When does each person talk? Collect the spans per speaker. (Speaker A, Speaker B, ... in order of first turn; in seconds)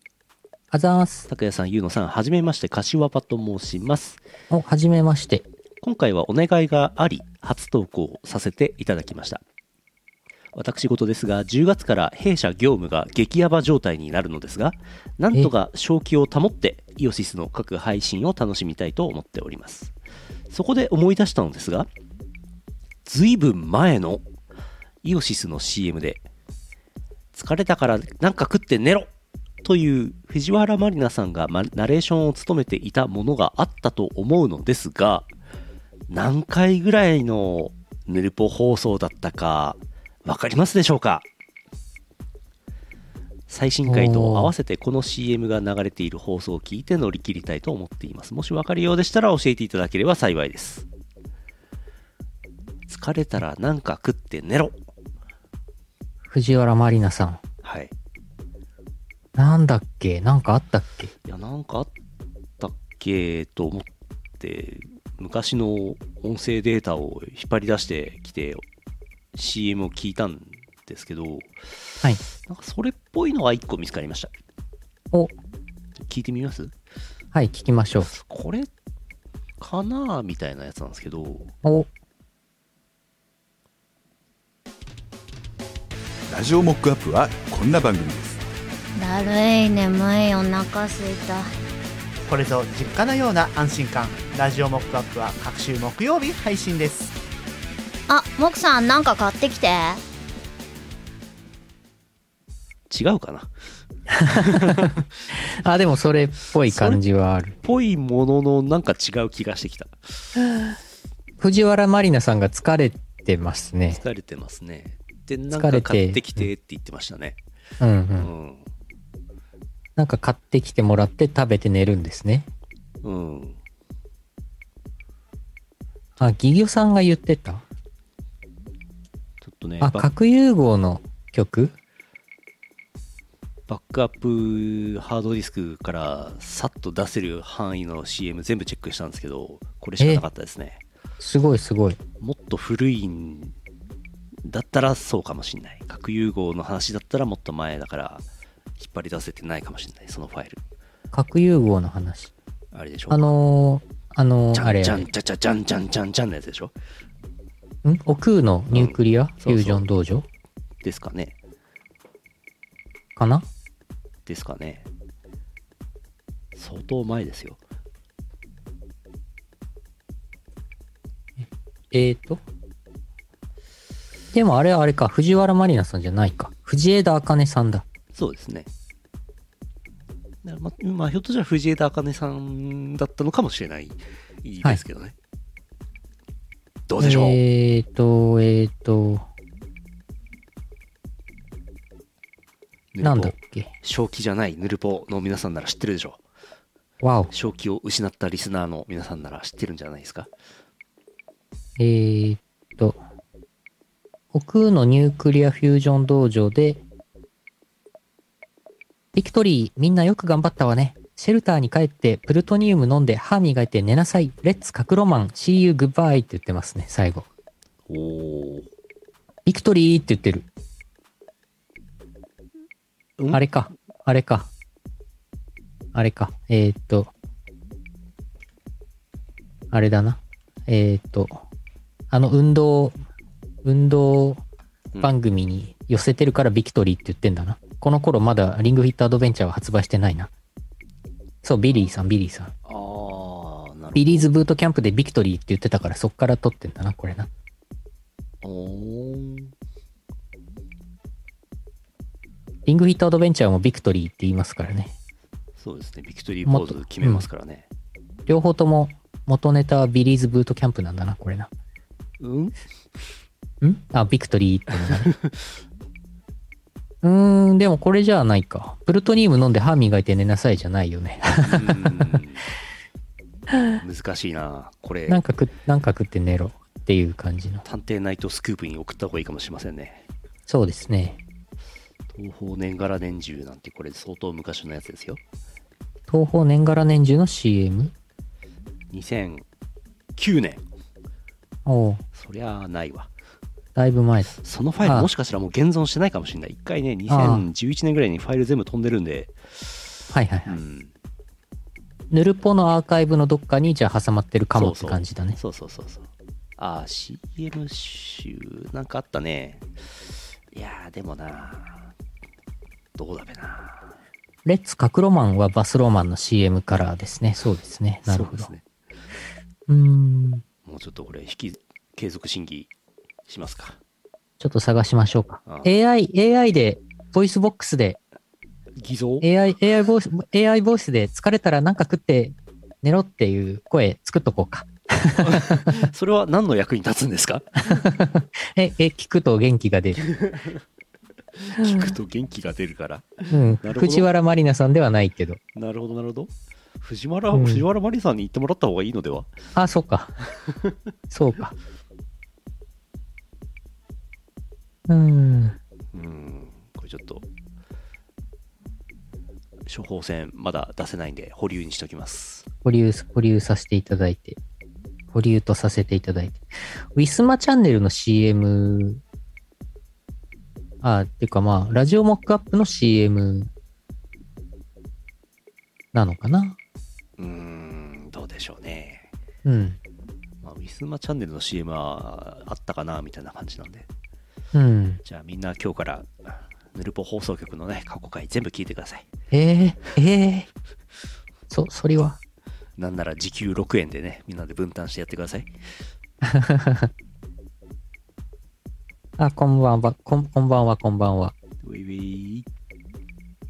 Speaker A: 0.7-1.3, 4.5-5.5, 43.9-44.5, 56.3-57.4, 59.4-61.1, 77.3-78.1, 104.2-104.9, 105.6-107.6, 111.4-114.0, 115.5-116.5, 117.8-118.3, 120.0-122.5, 126.2-127.6, 129.8-131.7, 141.2-142.0, 151.1-152.3, 153.1-155.1, 157.8-160.3, 163.2-163.5, 171.9-172.4, 174.3-177.8, 187.0-189.2, 193.0-193.7, 197.0-197.3, 201.8-203.0, 204.3-206.8, 209.2-217.3, 219.5-220.5, 223.3-224.5, 225.9-227.1, 229.7-231.4, 232.1-232.9, 233.6-234.4, 235.0-240.3, 241.4-242.5, 243.9-247.3, 252.7-254.9, 256.5-257.3, 258.3-261.5, 263.6-265.1, 267.0-272.2, 275.1-277.6, 280.5-281.2, 286.1-287.9, 291.7-292.0, 293.8-295.1, 297.1-297.5, 300.1-300.6, 302.1-305.4, 314.5-318.5, 319.7-320.4, 324.4-328.0, 329.2-335.7, 337.7-340.1, 343.3-345.4, 347.3-347.6, 349.6-350.1, 351.1-351.6, 354.9-355.6, 362.6-364.4, 365.1-366.4, 366.9-369.0, 370.8-373.5, 375.9-376.6, 379.4-379.8, 384.5-385.0, 389.3-390.5, 391.5-392.2, 396.2-396.9, 399.2-401.3
Speaker B: 1.3-4.2, 5.8-9.4, 10.5-19.9, 20.5-21.9, 23.1-24.2, 25.0-26.2, 27.3-29.1, 29.6-35.3, 36.1-41.3, 43.5-50.9, 52.9-54.8, 57.6-57.9, 61.2-61.9, 62.6-63.9, 64.4-68.6, 69.3-71.7, 72.4-74.3, 76.0-76.7, 78.1-78.7, 79.6-81.5, 102.9-103.5, 104.3-105.0, 106.6-107.0, 107.6-110.3, 113.9-117.4, 118.2-118.7, 123.0-123.6, 129.4-130.1, 133.7-140.8, 142.2-143.6, 144.4-148.2, 148.8-150.6, 152.7-153.3, 154.5-156.7, 158.7-159.9, 160.8-161.3, 164.3-164.9, 166.6-167.6, 178.1-178.7, 180.4-185.2, 186.9-187.4, 192.9-196.2, 197.3-200.3, 217.9-218.7, 223.2-223.4, 242.7-244.3, 248.4-249.5, 255.6-257.7, 262.2-262.6, 264.9-265.3, 271.4-272.5, 273.8-275.2, 277.6-280.1, 282.1-285.2, 288.9-289.4, 290.2-290.6, 292.1-293.1, 294.4-299.4, 300.5-300.9, 304.6-311.9, 313.0-313.9, 318.1-318.6, 320.6-322.7, 323.3-323.8, 325.5-325.7, 328.8-329.3, 335.2-337.9, 340.0-340.6, 341.4-344.1, 345.6-349.3, 355.9-357.3, 359.7-362.4, 377.2-379.1, 380.4-383.9, 385.0-389.1, 392.8-395.5, 401.6-402.5
Speaker C: 86.3-88.4
Speaker D: 89.0-91.5, 98.1-100.0
Speaker E: 92.3-97.1